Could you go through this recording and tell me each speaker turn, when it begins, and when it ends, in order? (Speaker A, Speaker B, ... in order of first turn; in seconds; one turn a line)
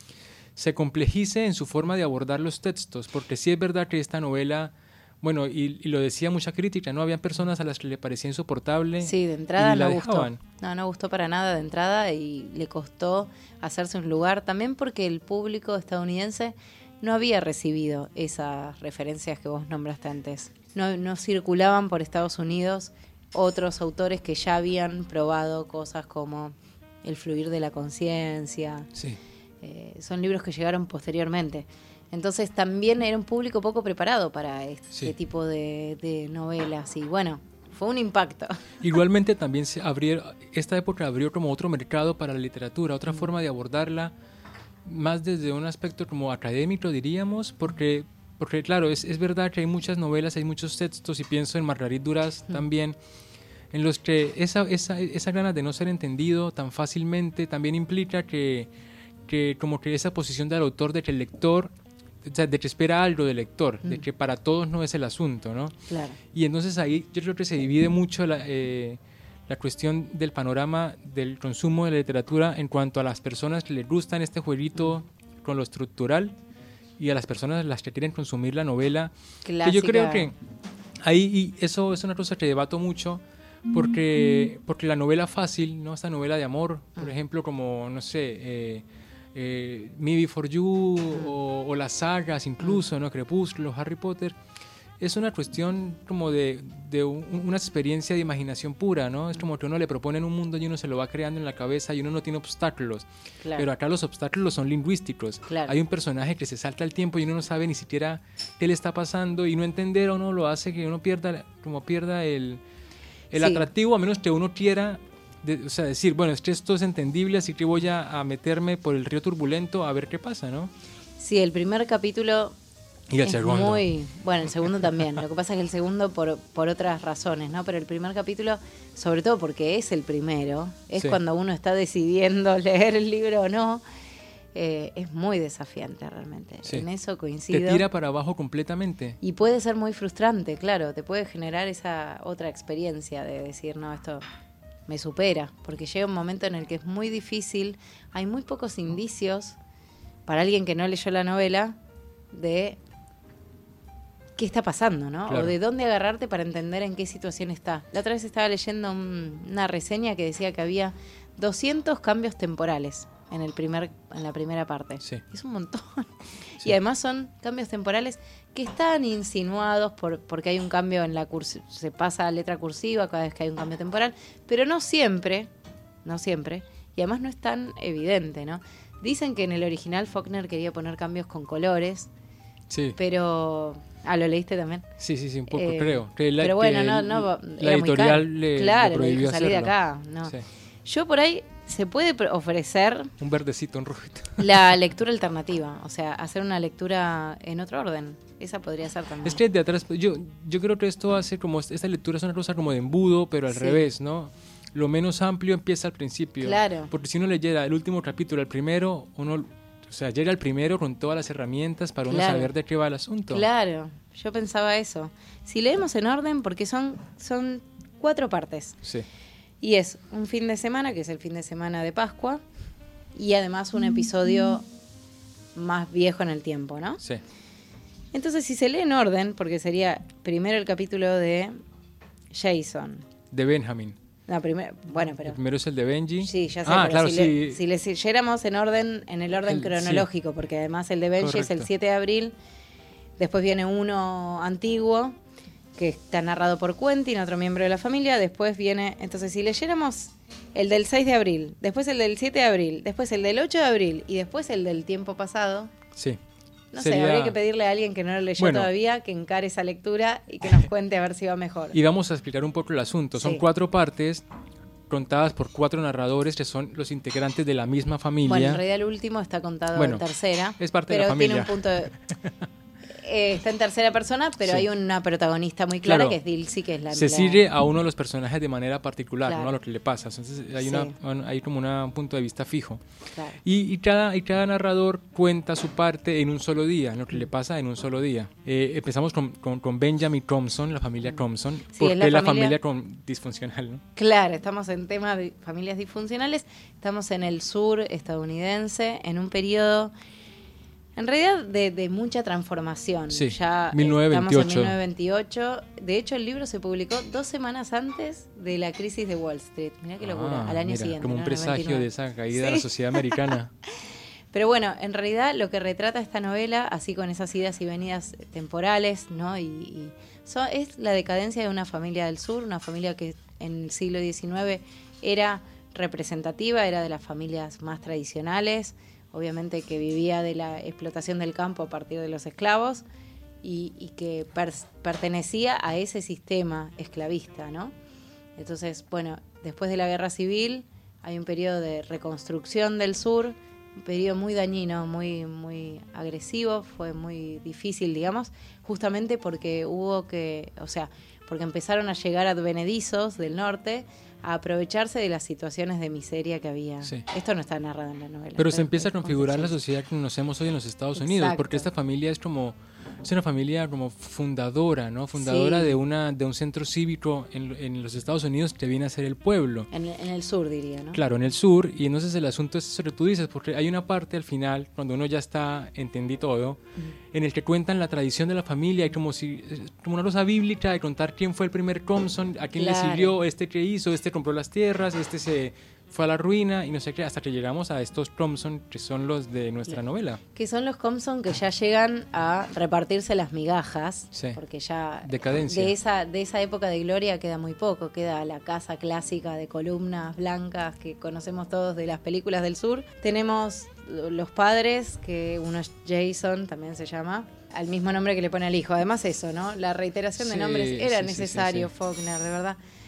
Speaker A: 0.6-10.4
Speaker B: 9.0-28.9
Speaker A: 28.9-29.2
Speaker B: 29.6-38.8
Speaker A: 38.8-44.1
Speaker A: 44.9-53.0
Speaker A: 53.7-58.7
Speaker A: 59.3-61.7
Speaker A: 62.2-65.8
Speaker B: 65.9-66.2
Speaker A: 66.3-76.3
Speaker A: 77.0-80.3
Speaker B: 79.5-80.3
Speaker A: 81.0-94.4
Speaker A: 95.0-112.6
Speaker B: 105.5-105.7
Speaker A: 113.3-120.7
Speaker B: 113.4-113.7
Speaker B: 121.2-122.5
Speaker A: 123.1-123.8
Speaker B: 123.2-133.8
Speaker B: 134.5-137.8
Speaker A: 137.5-139.2
Speaker B: 139.2-144.2
Speaker B: 144.9-149.6
Speaker B: 150.3-151.8
Speaker B: 152.3-152.8
Speaker B: 154.4-175.5
Speaker A: 155.3-155.6
Speaker B: 176.1-182.1
Speaker A: 182.7-183.0
Speaker B: 183.0-184.9
Speaker A: 185.0-189.7
Speaker B: 185.5-190.3
Speaker B: 190.9-193.1
Speaker A: 193.2-194.7
Speaker B: 194.4-199.4
Speaker A: 199.2-213.4
Speaker B: 203.5-203.8
Speaker B: 206.4-206.9
Speaker B: 212.1-212.5
Speaker B: 213.3-218.8
Speaker B: 219.6-222.4
Speaker B: 223.2-224.7
Speaker B: 225.6-227.0
Speaker B: 228.1-231.6
Speaker B: 232.3-233.1
Speaker A: 233.3-234.0
Speaker B: 234.3-235.4
Speaker A: 235.2-237.6
Speaker B: 236.2-242.3
Speaker A: 239.5-240.1
Speaker A: 241.2-241.7
Speaker B: 243.2-245.2
Speaker B: 245.8-255.7
Speaker A: 256.0-256.2
Speaker B: 256.7-261.8
Speaker A: 256.8-257.4
Speaker A: 258.4-258.7
Speaker A: 261.7-264.2
Speaker B: 263.2-263.4
Speaker A: 264.9-268.6
Speaker B: 268.3-271.9
Speaker A: 269.8-270.0
Speaker A: 270.6-272.3
Speaker B: 272.9-277.4
Speaker A: 275.8-276.2
Speaker A: 276.9-282.8
Speaker B: 279.3-279.6
Speaker B: 280.6-280.9
Speaker B: 283.1-283.4
Speaker A: 283.4-293.8
Speaker B: 291.7-292.6
Speaker B: 294.0-299.9
Speaker B: 301.0-313.2
Speaker A: 303.1-304.8
Speaker A: 310.0-313.5
Speaker B: 314.3-332.8
Speaker B: 333.4-337.7
Speaker B: 338.4-359.6
Speaker A: 358.4-369.7
Speaker B: 361.0-361.7
Speaker B: 365.2-365.8
Speaker B: 369.7-371.0
Speaker A: 370.9-376.6
Speaker A: 377.1-390.2
Speaker B: 382.6-383.1
Speaker B: 390.4-412.6
Speaker A: 395.1-395.7
Speaker A: 410.2-411.7